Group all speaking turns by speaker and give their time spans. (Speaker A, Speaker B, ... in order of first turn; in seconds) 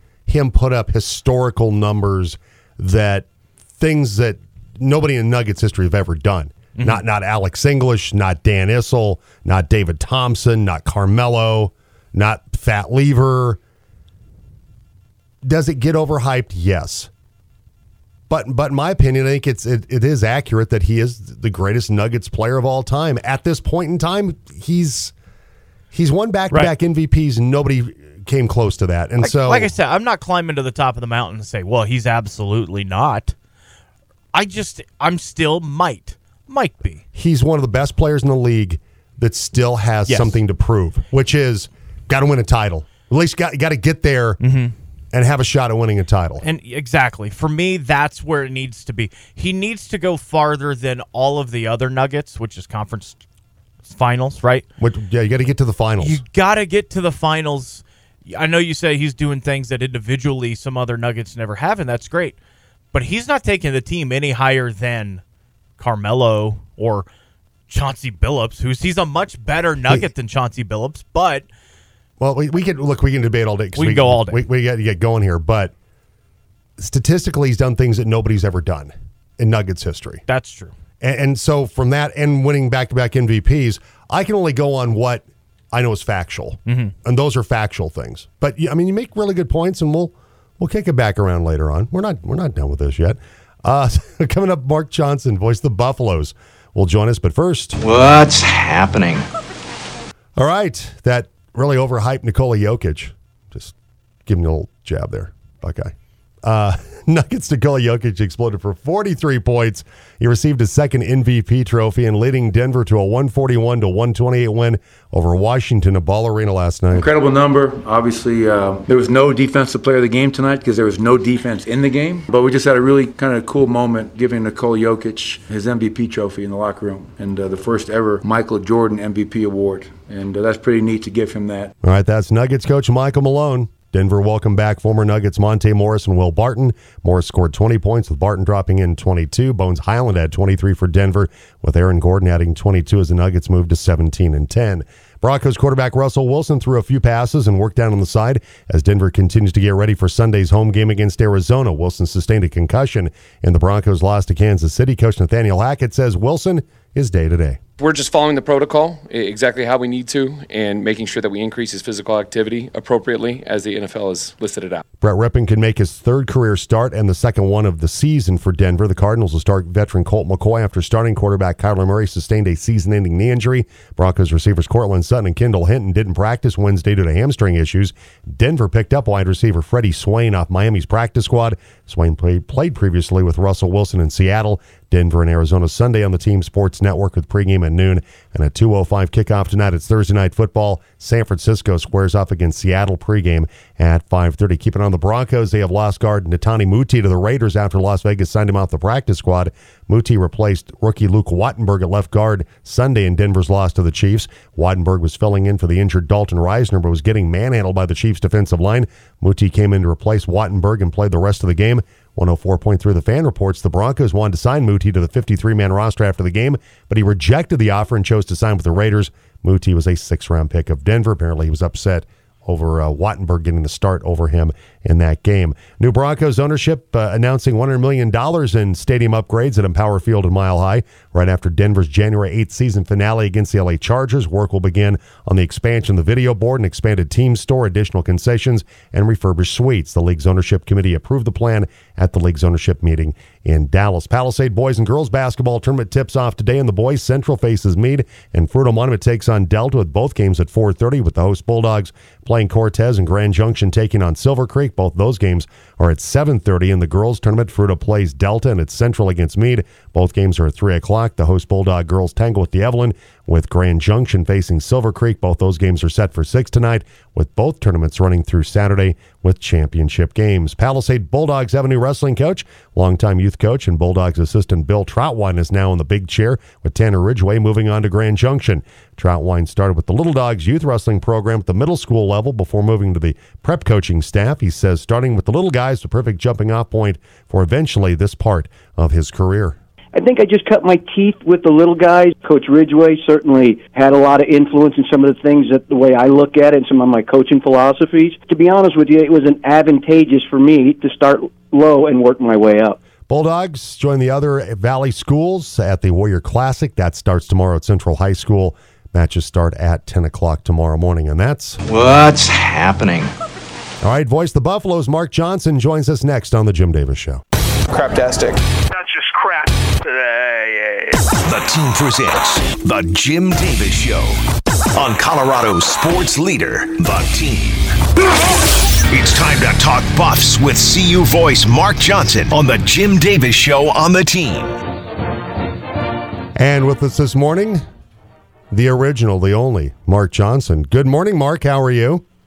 Speaker A: 0.3-13.6, 15.4-17.1, 18.3-25.1, 25.9-29.7, 37.1-44.4, 45.1-46.4, 54.8-56.2, 72.2-75.7, 76.8-80.2, 81.0-97.8, 100.4-103.7, 104.3-105.9, 106.4-117.1, 131.8-157.6, 165.0-289.6, 303.1-311.6, 313.8-317.2, 336.4-337.6, 338.5-342.0
Speaker B: 6.8-7.0, 29.2-33.4, 34.3-37.0, 40.1-40.4, 44.4-44.7, 46.4-53.2, 53.9-54.7, 56.0-62.4, 62.9-65.2, 65.8-67.1, 67.7-71.5, 73.8-74.4, 80.3-80.8, 86.7-86.9
Speaker C: 97.8-99.2, 311.7-313.1
Speaker D: 116.9-131.7
Speaker E: 157.8-164.8, 317.7-318.4
Speaker F: 289.9-302.8
Speaker G: 318.7-321.1
Speaker H: 321.2-324.2, 324.8-327.7, 328.9-334.6